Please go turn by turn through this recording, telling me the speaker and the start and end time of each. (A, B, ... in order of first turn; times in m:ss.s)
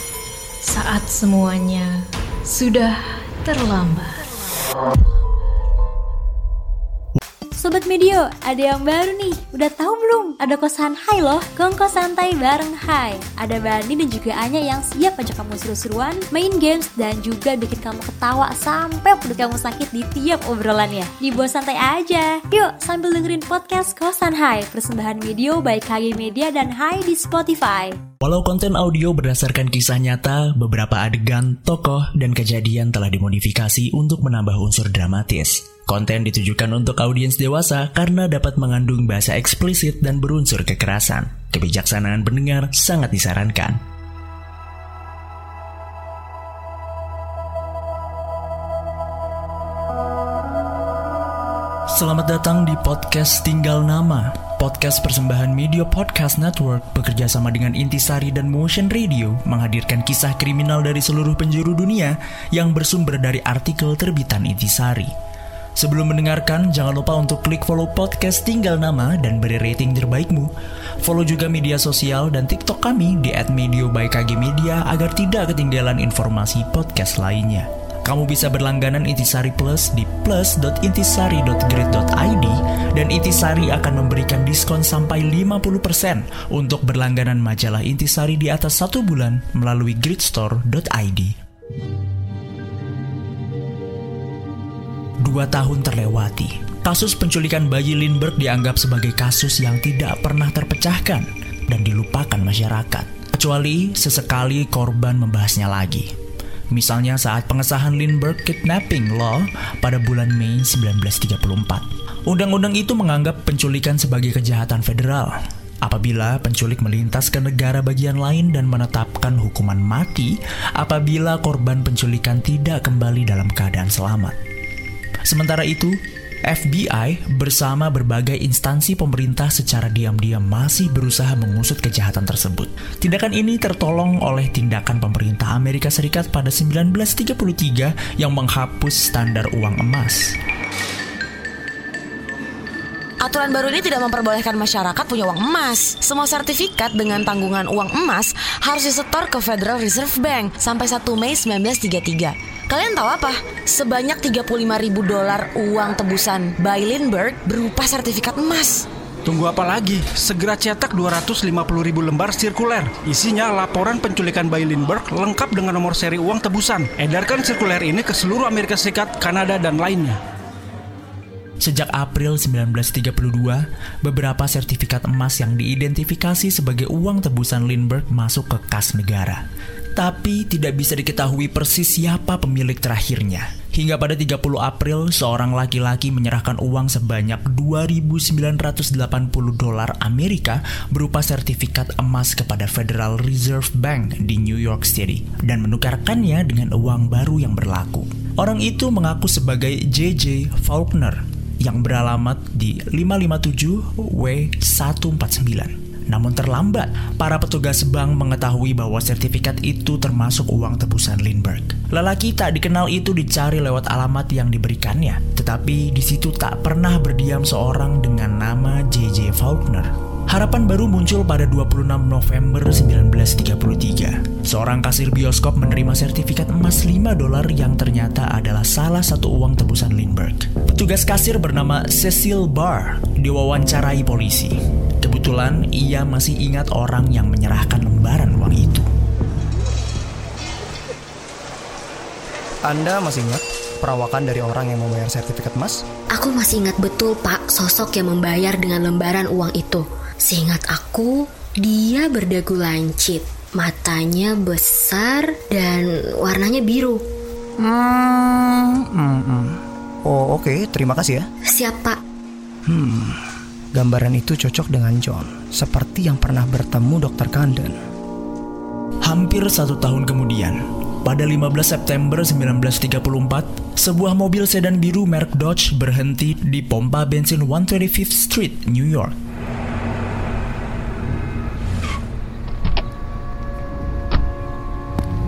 0:00.6-0:04.2 A
0:07.6-0:28.0 B
0:28.2-0:43.8 C
0:51.9-1:05.1 C
1:05.8-1:10.5 C
1:11.0-1:31.4 C
1:35.2-1:46.1 C
1:46.7-2:04.4 C
2:05.3-2:06.0 C
2:06.5-2:20.4 C
2:23.6-2:24.0 D
2:24.6-2:25.2 D
2:25.9-2:27.6 D
2:28.7-2:29.4 D
2:29.9-2:31.8 D
2:32.8-2:38.2 D
2:39.2-2:50.2 E
2:51.6-2:59.4 C
3:00.0-3:58.9 C
4:02.7-4:05.8 F
4:06.1-4:17.0 G
4:17.7-4:19.5 F
4:20.1-4:21.2 F
4:21.5-4:22.0 G
4:22.7-4:23.1 F
4:23.7-4:27.8 F
4:29.0-4:39.2 C